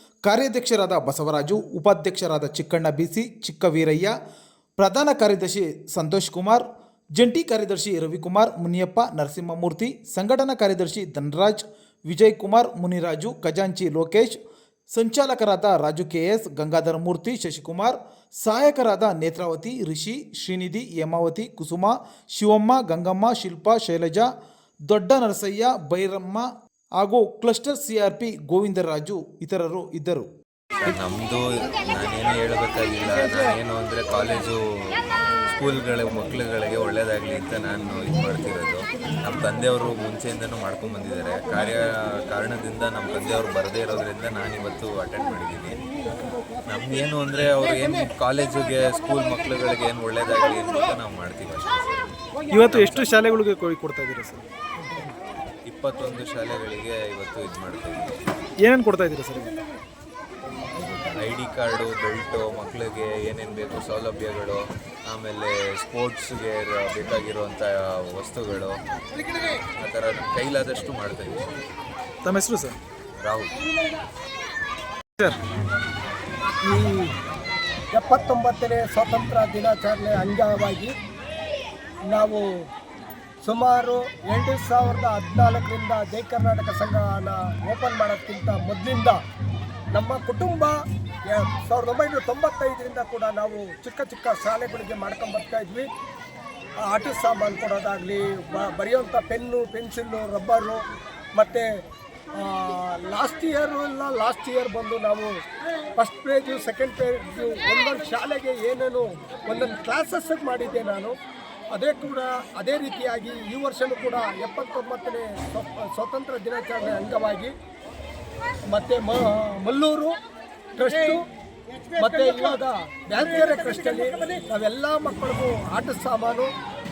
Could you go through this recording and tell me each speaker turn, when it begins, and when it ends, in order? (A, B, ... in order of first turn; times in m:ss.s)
0:00.2-0:04.1 A
0:04.8-0:14.4 A
0:14.9-0:24.3 A
0:24.9-0:30.3 A
0:30.8-0:34.9 B
0:35.5-0:45.8 B
0:46.7-0:53.1 B
0:52.5-0:54.4 C
0:55.7-0:58.2 B
0:58.6-0:59.5 C
1:01.1-1:08.8 B
1:09.8-1:11.5 B
1:12.2-1:12.8 C
1:13.2-1:13.5 B
1:16.6-1:17.1 D
1:17.9-1:20.9 D
1:22.1-1:22.4 D
1:23.4-1:29.2 D
1:29.9-1:30.7 D
1:31.3-1:35.9 D
1:36.8-1:40.8 D
1:41.4-1:41.7 D
1:42.4-1:45.3 D
1:46.0-1:51.1 D
1:51.7-1:57.5 D
1:58.7-2:00.1 D
2:00.8-2:01.2 D
2:02.0-2:06.5 D